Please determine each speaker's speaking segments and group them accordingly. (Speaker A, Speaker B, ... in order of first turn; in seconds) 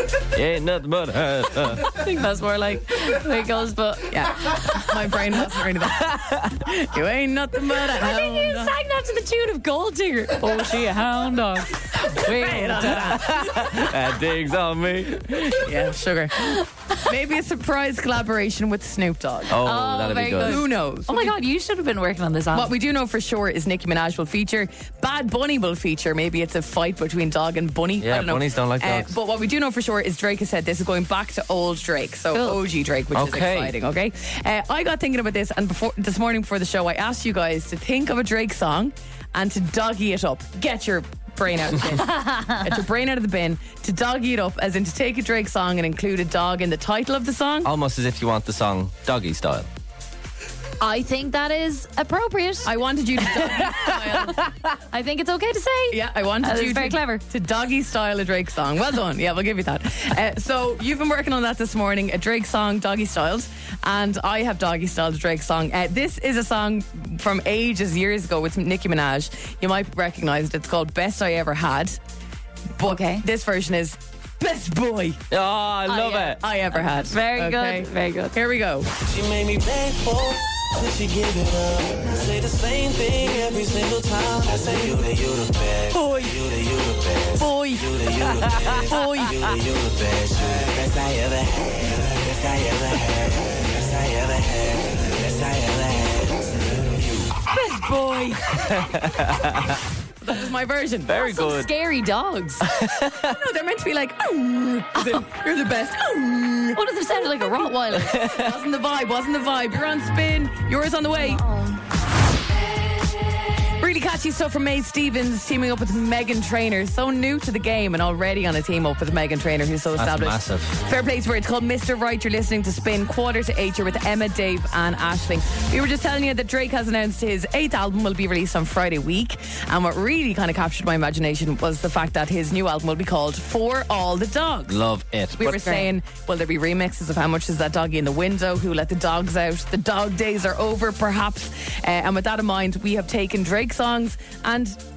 Speaker A: 0.3-1.9, 6.0-6.5, 12.8-15.7, 19.5-20.6, 28.0-29.1, 33.1-33.7, 47.6-49.7, 75.3-76.4, 88.3-88.8, 98.5-99.8, 101.1-101.7, 102.6-103.4, 108.0-108.5, 120.0-120.8, 134.7-135.7
Speaker B: 1.8-4.8, 8.0-13.3, 16.4-17.0, 19.6-22.7, 32.3-32.6, 42.0-42.8, 50.8-52.7, 54.9-57.2, 72.8-73.2, 75.9-76.4, 77.0-78.3, 101.1-102.7, 105.0-105.2, 106.7-108.2, 111.2-111.8
Speaker C: 4.1-8.7, 12.0-13.9, 15.5-19.6, 20.4-21.4, 22.5-47.7, 52.6-54.4, 55.9-72.0, 72.8-75.2, 76.2-78.9, 85.9-86.4, 87.3-88.0, 88.9-89.5, 97.5-98.7, 100.2-101.1, 103.1-106.8, 108.2-111.4, 113.8-134.8, 135.4-144.8
Speaker D: 79.0-97.3